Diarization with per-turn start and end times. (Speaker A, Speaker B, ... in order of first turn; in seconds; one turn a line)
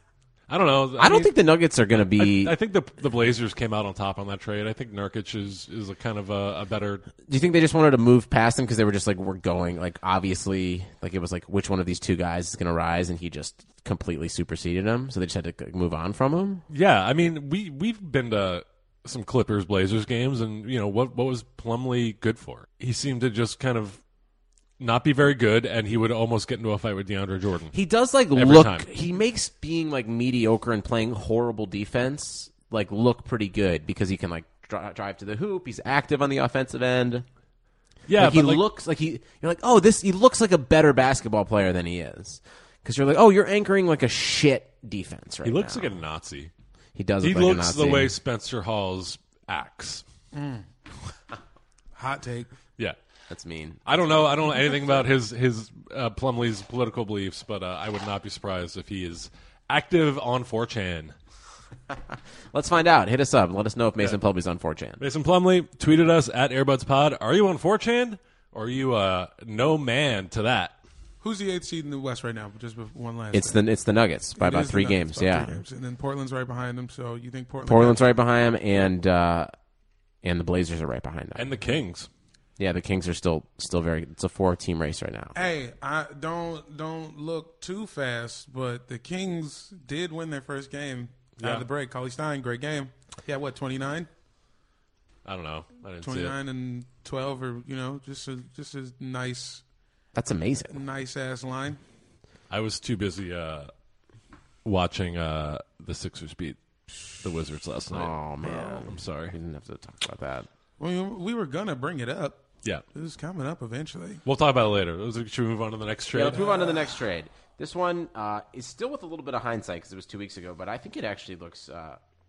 Speaker A: 0.5-1.4
Speaker B: 1.0-2.5
Speaker A: 1.9-7.0
Speaker B: 7.2-16.6
Speaker A: 16.7-24.0
Speaker A: 24.8-27.8
Speaker B: 27.7-37.2
Speaker A: 28.3-28.9
Speaker A: 38.1-38.6
Speaker B: 38.2-46.0
Speaker A: 45.4-46.5
Speaker B: 47.0-48.1
Speaker A: 47.2-50.0
Speaker C: 50.3-50.6
Speaker C: 52.0-52.5
Speaker B: 53.3-53.9
Speaker A: 53.9-61.1
Speaker B: 62.5-65.0
Speaker A: 65.0-70.8
Speaker C: 71.2-73.6
Speaker B: 73.3-75.6
Speaker C: 74.4-78.0
Speaker B: 77.6-79.5
Speaker B: 80.2-81.5
Speaker A: 81.4-82.1
Speaker B: 82.6-85.4
Speaker C: 85.3-94.1
Speaker A: 91.4-91.7
Speaker A: 95.2-96.3
Speaker C: 96.0-99.6
Speaker B: 100.1-100.8
Speaker C: 100.7-101.8
Speaker A: 102.5-103.7
Speaker A: 104.6-106.6
Speaker A: 107.2-108.1
Speaker B: 107.9-110.5
Speaker A: 108.8-109.4
Speaker C: 110.8-112.4
Speaker C: 112.9-114.2
Speaker A: 114.2-116.4
Speaker B: 116.1-122.0
Speaker C: 116.2-117.0